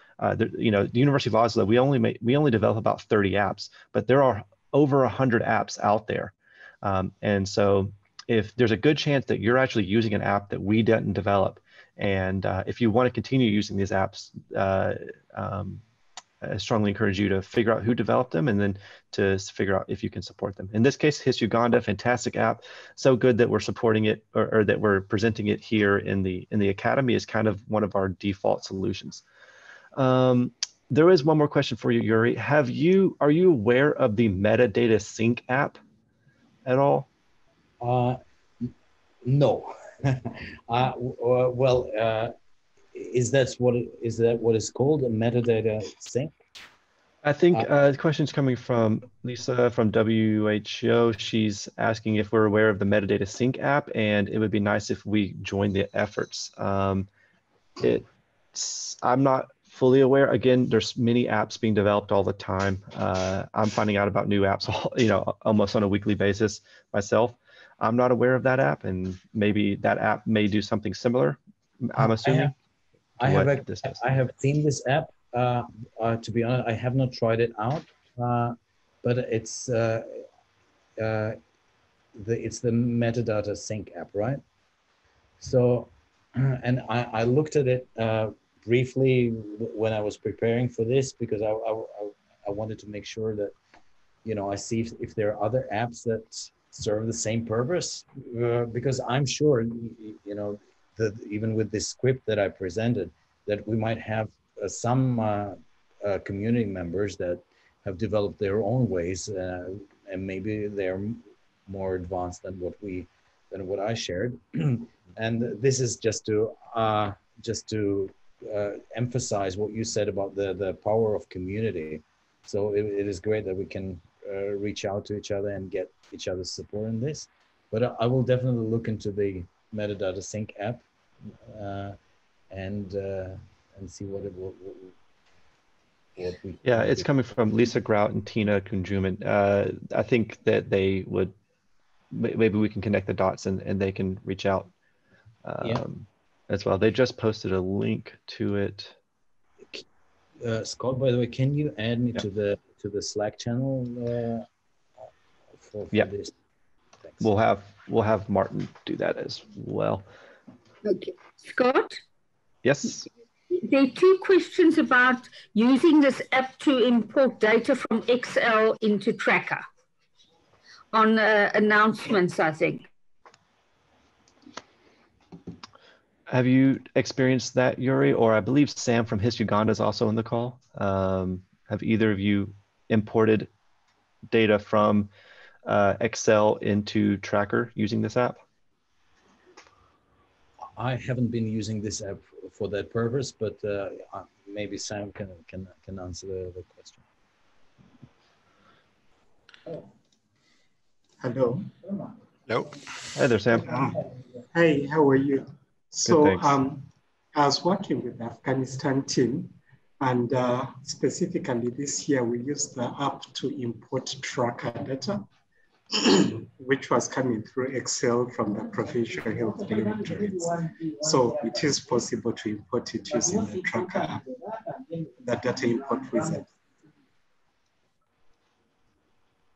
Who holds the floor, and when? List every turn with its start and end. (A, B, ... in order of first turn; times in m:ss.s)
0:00.2-0:15.8 A
0:16.4-0:29.2 A
0:30.0-0:35.8 A
0:36.6-0:37.1 A
0:37.8-0:38.7 B
0:39.2-0:42.3 B
0:42.9-0:46.3 B
0:47.2-0:57.1 A
0:57.8-1:12.5 A
1:12.0-1:12.5 B
1:13.2-1:20.2 B
1:13.2-1:14.1 A
1:21.0-1:21.4 B
1:22.1-1:24.4 B
1:25.4-1:33.5 B
1:34.2-2:12.0 B
2:12.5-2:14.9 B
2:16.2-2:17.1 B
2:16.6-2:21.3 A
2:22.1-2:24.7 A
2:25.4-2:28.9 A
2:30.4-2:34.5 B
2:35.6-2:36.3 B
2:37.2-2:40.0 A
2:40.8-2:42.0 C
2:42.6-2:43.1 A
2:43.5-2:49.6 C
2:50.9-2:52.8 C
2:56.3-3:03.5 A
3:04.3-3:05.1 A
3:05.6-3:08.4 A
3:10.8-3:17.0 B
3:21.2-3:21.7 D
3:23.1-3:23.7 A
3:23.6-3:35.2 D
3:26.0-3:26.6 A
3:35.9-3:44.3 D
3:45.2-3:46.5 D